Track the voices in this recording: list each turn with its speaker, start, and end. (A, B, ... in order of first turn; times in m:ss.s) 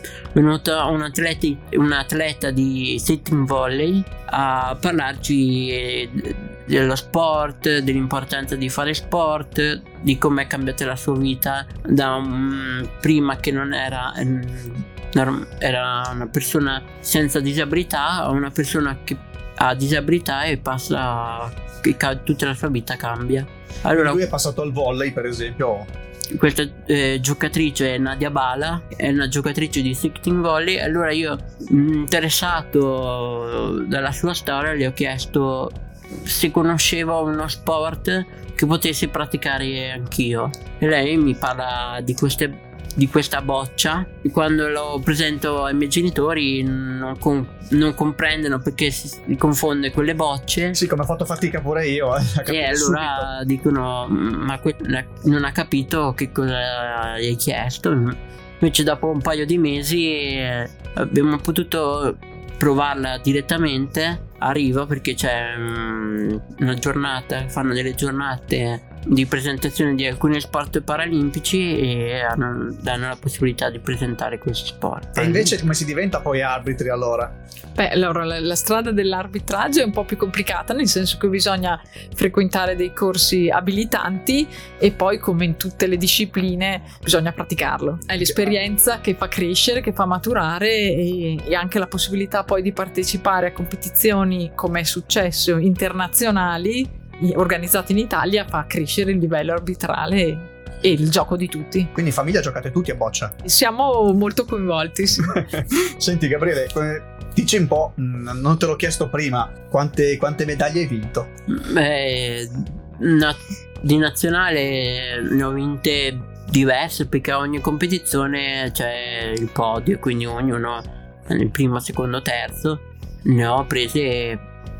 0:00.3-0:24.2 A
0:24.0-0:25.9 B
0:26.4-0:50.8 A
0:50.7-0:53.3 B
0:52.5-1:15.6 A
1:15.2-1:17.4 B
1:17.8-1:41.9 C
1:42.0-1:43.3 B
1:43.4-1:45.4 C
1:45.2-1:51.3 B
1:51.5-2:04.4 A